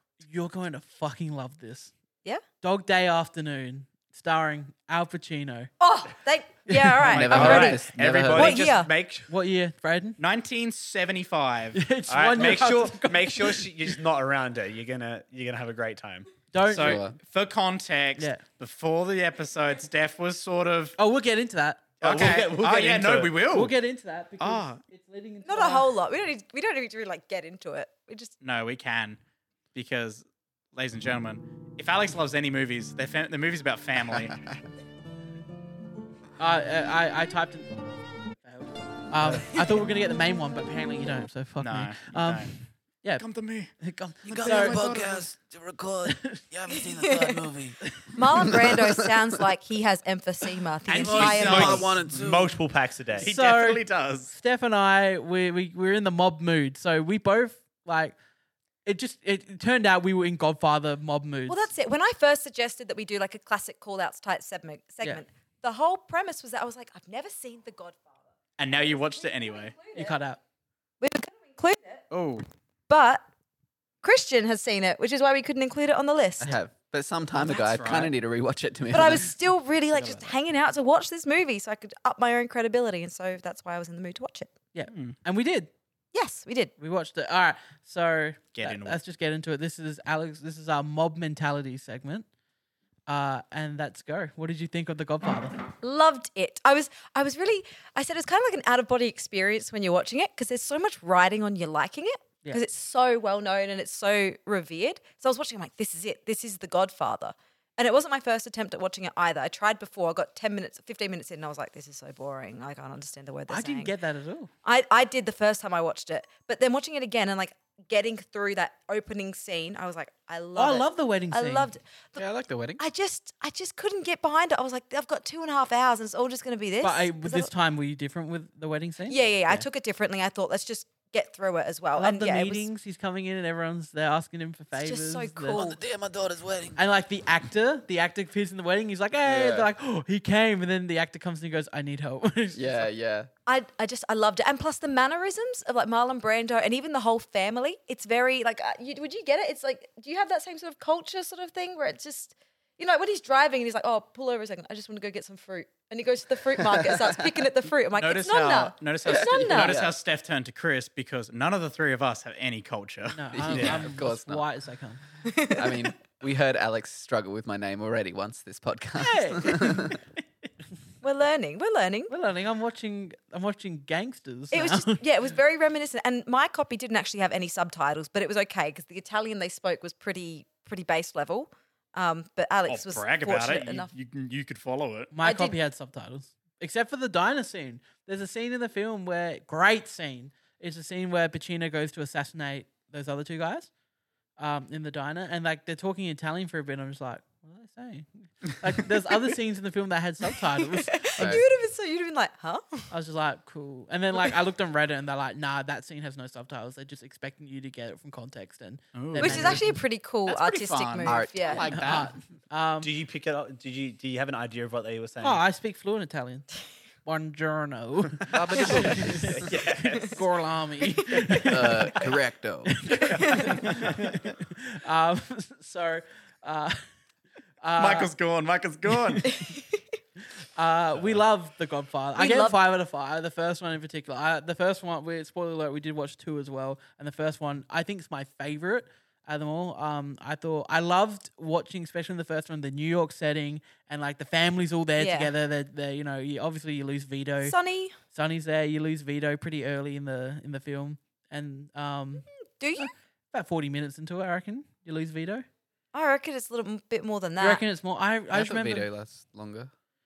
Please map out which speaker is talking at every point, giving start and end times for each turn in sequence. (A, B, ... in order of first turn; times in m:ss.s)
0:00.2-0:01.9 A
0:02.6-0:05.7 A
0:05.8-0:08.9 B
0:06.7-0:07.7 A
0:07.0-0:08.6 C
0:07.1-0:07.8 D
0:07.3-0:09.3 E
0:09.3-0:10.2 A
0:10.2-0:11.9 D
0:11.7-0:13.9 A
0:12.1-0:16.3 E
0:16.5-0:17.0 A
0:16.6-0:21.0 D
0:16.7-0:17.2 C
0:18.2-0:18.4 A
0:21.0-0:21.9 A
0:22.0-0:23.4 E
0:22.0-0:23.7 D
0:23.5-0:25.9 A
0:24.4-0:24.8 D
0:25.4-0:28.3 B
0:28.4-0:29.2 D
0:29.7-0:34.4 D
0:36.4-0:43.2 A
0:41.6-0:42.5 D
0:43.2-0:43.7 D
0:43.8-0:45.0 A
0:44.2-0:49.1 C
0:44.3-0:45.3 D
0:46.0-0:46.4 A
0:46.7-0:47.4 B
0:47.8-0:48.2 A
0:48.1-0:51.9 B
0:50.9-0:52.1 D
0:51.0-0:52.5 C
0:51.3-0:53.3 E
0:53.2-0:54.3 D
0:53.2-0:58.2 A
0:58.8-1:01.7 A
1:01.5-1:08.1 B
1:08.6-1:09.7 D
1:09.2-1:10.1 B
1:09.9-1:10.4 A
1:11.0-1:12.0 B
1:12.1-1:12.4 D
1:12.9-1:13.2 B
1:14.0-1:16.5 B
1:16.4-1:19.3 C
1:17.4-1:18.1 D
1:18.9-1:24.5 B
1:24.7-1:25.7 A
1:24.9-1:25.2 D
1:26.1-1:26.7 B
1:26.8-1:32.2 A
1:28.5-1:29.0 D
1:33.1-1:35.6 A
1:35.8-1:53.9 B
1:53.5-1:54.5 A
1:54.6-2:02.2 B
2:00.6-2:01.7 A
2:02.2-2:02.8 C
2:02.8-2:07.5 B
2:06.8-2:09.6 A
2:09.1-2:12.7 B
2:12.0-2:15.6 A
2:14.7-2:15.8 B
2:15.5-2:16.8 C
2:16.8-2:22.9 A
2:19.2-2:19.7 C
2:22.5-2:23.3 C
2:23.4-2:39.8 B
2:36.7-2:37.0 C
2:37.9-2:43.8 D
2:39.0-2:39.9 C
2:43.1-2:45.0 A
2:43.3-2:44.4 C
2:45.2-2:45.9 B
2:45.5-2:50.0 C
2:49.0-2:50.0 A
2:51.0-2:52.1 B
2:52.1-2:55.0 A
2:54.5-3:03.9 B
3:02.7-3:05.1 D
3:05.1-3:13.7 A
3:05.2-3:05.5 B
3:14.4-3:21.4 A
3:20.5-3:22.9 B
3:21.2-3:21.4 C
3:22.9-3:29.8 A
3:28.9-3:29.7 D
3:29.2-3:31.7 B
3:30.3-3:32.1 D
3:31.0-3:31.7 C
3:31.7-3:32.9 A
3:32.8-3:35.4 E
3:35.2-3:36.5 A
3:37.0-3:42.1 A
3:38.3-3:39.5 C
3:38.9-3:40.2 E
3:41.1-3:41.4 B
3:41.4-3:42.8 C
3:42.6-3:46.8 A
3:43.2-3:43.6 B
3:47.6-3:48.1 A
3:47.8-3:49.3 D
3:49.1-3:49.5 A
3:49.3-3:49.6 B
3:50.6-4:07.5 A
3:52.2-3:52.6 B
4:05.0-4:05.3 B
4:07.4-4:07.9 B
4:08.1-4:15.4 A
4:12.6-4:12.9 B
4:15.9-4:17.6 B
4:17.4-4:18.9 A
4:18.3-4:19.7 C